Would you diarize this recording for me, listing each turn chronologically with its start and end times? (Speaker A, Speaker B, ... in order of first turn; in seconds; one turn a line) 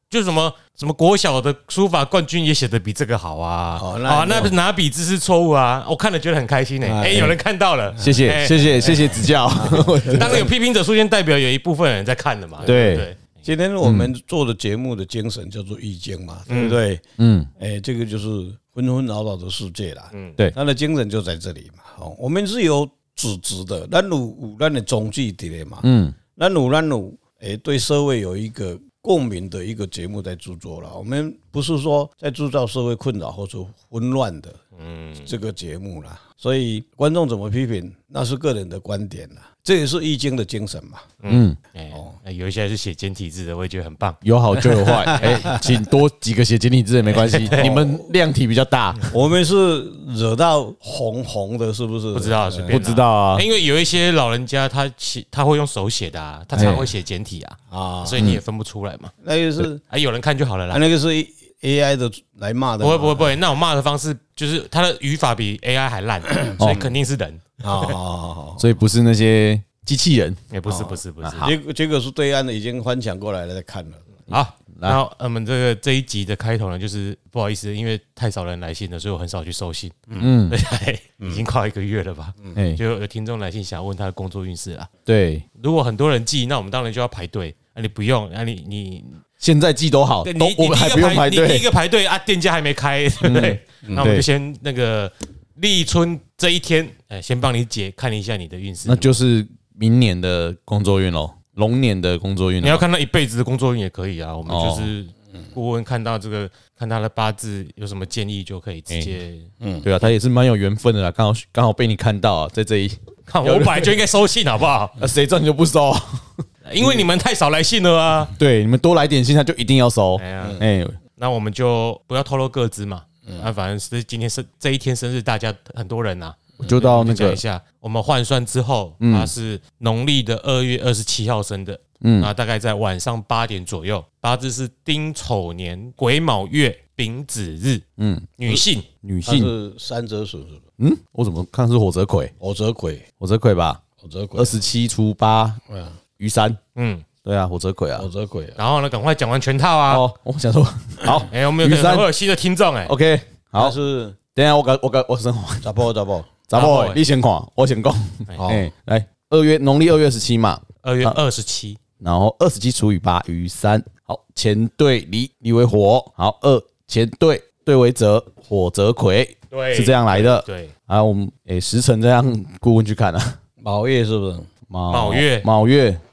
Speaker A: 0.1-9.0
Speaker B: 3.7-4.5
Speaker B: 6.8-7.3
Speaker C: 8.0-10.5
Speaker B: 8.8-10.5
Speaker A: 10.1-13.3
Speaker B: 12.6-17.0
Speaker C: 12.6-13.1
Speaker C: 13.8-14.1
Speaker A: 16.5-16.8
Speaker C: 17.2-17.5
Speaker B: 17.6-34.6
Speaker A: 20.1-20.4
Speaker C: 25.8-26.1
Speaker A: 34.8-35.3
Speaker B: 35.2-41.1
Speaker A: 41.2-44.2
Speaker C: 41.3-41.6
Speaker B: 41.9-42.2
Speaker C: 44.2-49.0
Speaker A: 44.7-45.4
Speaker B: 44.9-45.6
Speaker B: 47.1-48.1
Speaker A: 47.3-47.7
Speaker B: 49.1-52.8
Speaker A: 52.1-59.1
Speaker C: 52.7-53.5
Speaker C: 56.5-56.9
Speaker B: 57.7-58.2
Speaker C: 58.2-58.4
Speaker B: 59.2-59.8
Speaker A: 59.8-60.8
Speaker B: 60.7-63.4
Speaker A: 62.8-68.0
Speaker B: 66.3-66.6
Speaker C: 66.6-66.9
Speaker B: 67.6-68.7
Speaker C: 68.6-70.4
Speaker A: 70.5-71.5
Speaker B: 70.7-74.3
Speaker C: 71.2-71.5
Speaker C: 74.3-75.0
Speaker A: 74.3-84.9
Speaker C: 80.2-80.6
Speaker B: 81.2-81.4
Speaker C: 82.5-82.8
Speaker C: 85.1-85.4
Speaker A: 85.6-89.2
Speaker C: 89.4-91.7
Speaker A: 90.2-99.1
Speaker C: 93.2-94.2
Speaker C: 98.8-102.8
Speaker A: 102.6-109.5
Speaker C: 104.5-104.9
Speaker B: 109.6-109.9
Speaker C: 109.8-114.0
Speaker A: 113.3-114.9
Speaker C: 115.0-117.0
Speaker A: 116.6-118.3
Speaker C: 118.4-121.0
Speaker A: 120.2-120.6
Speaker A: 121.2-137.8
Speaker C: 126.6-127.4
Speaker C: 129.0-129.3
Speaker C: 132.0-132.3
Speaker C: 138.0-138.3
Speaker A: 138.4-138.9
Speaker C: 139.0-139.5
Speaker B: 139.2-140.6
Speaker C: 140.8-142.3
Speaker B: 142.4-143.0
Speaker C: 143.2-143.8
Speaker B: 144.0-144.6
Speaker C: 144.3-145.6
Speaker B: 145.7-146.0
Speaker C: 146.2-146.6
Speaker A: 146.8-147.1
Speaker C: 147.2-148.1
Speaker B: 148.0-148.6
Speaker A: 148.6-150.1
Speaker C: 149.9-152.1
Speaker A: 151.3-152.9
Speaker C: 152.8-153.7
Speaker B: 153.6-154.2
Speaker C: 154.3-155.7
Speaker B: 155.6-156.3
Speaker C: 156.5-161.2
Speaker A: 156.5-157.0
Speaker B: 158.3-158.7
Speaker A: 160.8-161.8
Speaker C: 162.0-173.4
Speaker A: 169.5-170.7
Speaker B: 173.6-174.5
Speaker C: 174.7-176.0
Speaker A: 174.9-175.5